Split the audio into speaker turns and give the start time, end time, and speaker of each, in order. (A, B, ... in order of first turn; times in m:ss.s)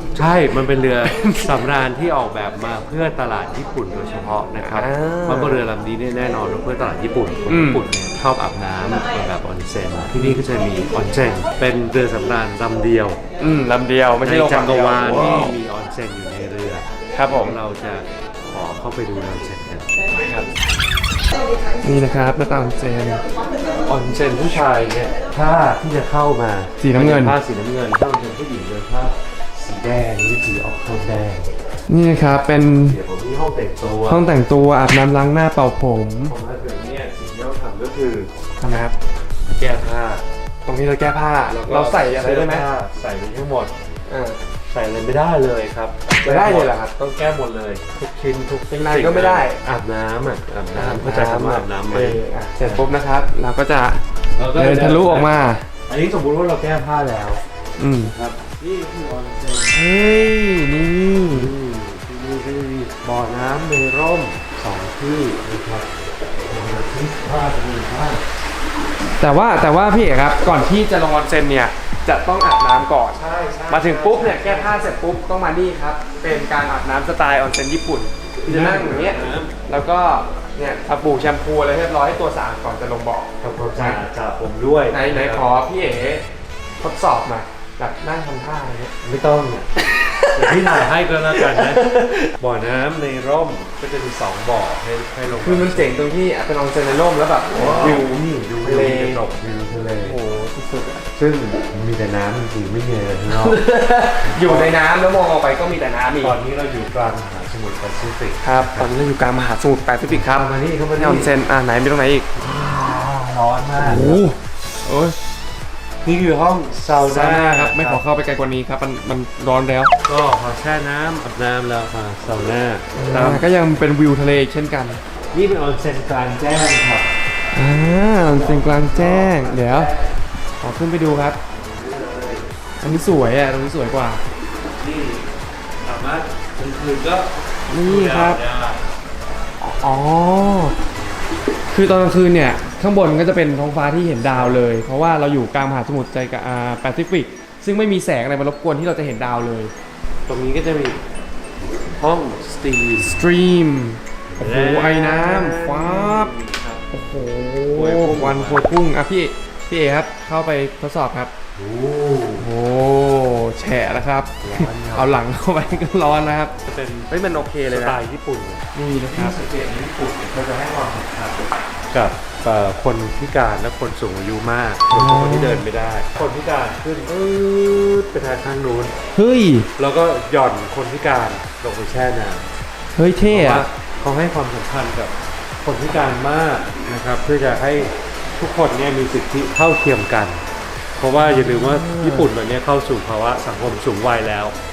0:00.2-0:13.2 A
0:01.0-0:01.6 B
0:04.6-0:05.7 B
0:07.5-0:07.8 B
0:13.4-0:15.5 B
0:14.2-0:19.9 A
0:17.1-0:17.6 B
0:20.2-0:20.5 B
0:21.8-0:23.2 B
0:23.9-0:31.6 A
0:26.8-0:27.4 B
0:31.9-0:33.0 B
0:32.8-0:34.2 A
0:34.1-0:36.3 B
0:36.3-0:38.3 A
0:38.6-0:38.9 B
0:39.5-0:40.2 A
0:40.7-0:42.7 B
0:41.5-0:43.7 A
0:44.1-0:44.4 B
0:44.7-0:48.1 A
0:46.2-0:46.9 B
0:48.1-0:49.6 B
0:48.9-0:52.9 A
0:50.7-0:54.0 B
0:54.4-0:55.3 A
0:54.5-0:55.7 B
0:55.9-0:57.4 A
0:57.8-0:58.1 B
0:58.0-0:59.8 A
0:59.7-1:01.5 B
1:01.3-1:05.9 A
1:06.5-1:08.2 A
1:09.2-1:24.0 B
1:13.1-1:14.9 A
1:18.4-1:19.5 A
1:23.4-1:25.5 A
1:24.9-1:26.2 B
1:26.8-1:29.0 B
1:29.0-1:29.7 A
1:30.2-1:32.3 B
1:30.3-1:31.9 A
1:32.4-1:35.9 A
1:35.4-1:39.2 B
1:37.5-1:40.2 A
1:40.0-1:41.1 B
1:41.2-1:43.6 A
1:43.3-1:46.4 B
1:44.2-1:44.8 A
1:46.2-1:48.9 A
1:48.4-1:52.3 B
1:50.3-1:51.3 A
1:52.4-1:54.2 A
1:53.8-1:55.2 B
1:56.0-1:58.0 A
1:57.0-1:59.9 B
2:00.1-2:03.4 A
2:03.0-2:05.0 B
2:05.3-2:07.1 A
2:07.6-2:09.9 B
2:08.4-2:10.0 A
2:10.6-2:11.4 B
2:11.6-2:12.5 A
2:12.8-2:14.2 B
2:14.8-2:15.3 A
2:15.8-2:18.8 A
2:17.7-2:18.4 B
2:19.6-2:20.8 B
2:21.7-2:29.7 B
2:24.2-2:24.6 A
2:30.3-2:31.0 A
2:32.0-2:33.2 A
2:33.0-2:36.3 B
2:34.3-2:36.8 A
2:36.9-2:41.3 B
2:37.7-2:38.8 A
2:41.6-2:42.5 A
2:42.4-2:46.6 B
2:44.4-2:45.2 A
2:46.7-2:47.1 A
2:47.1-2:48.0 B
2:47.7-2:49.4 A
2:48.7-2:51.3 B
2:51.9-2:58.9 A
2:54.9-2:55.6 B
2:59.1-2:59.7 B
2:59.8-3:02.5 A
3:03.0-3:03.7 B
3:03.2-3:10.4 A
3:11.0-3:14.6 A
3:11.2-3:12.3 B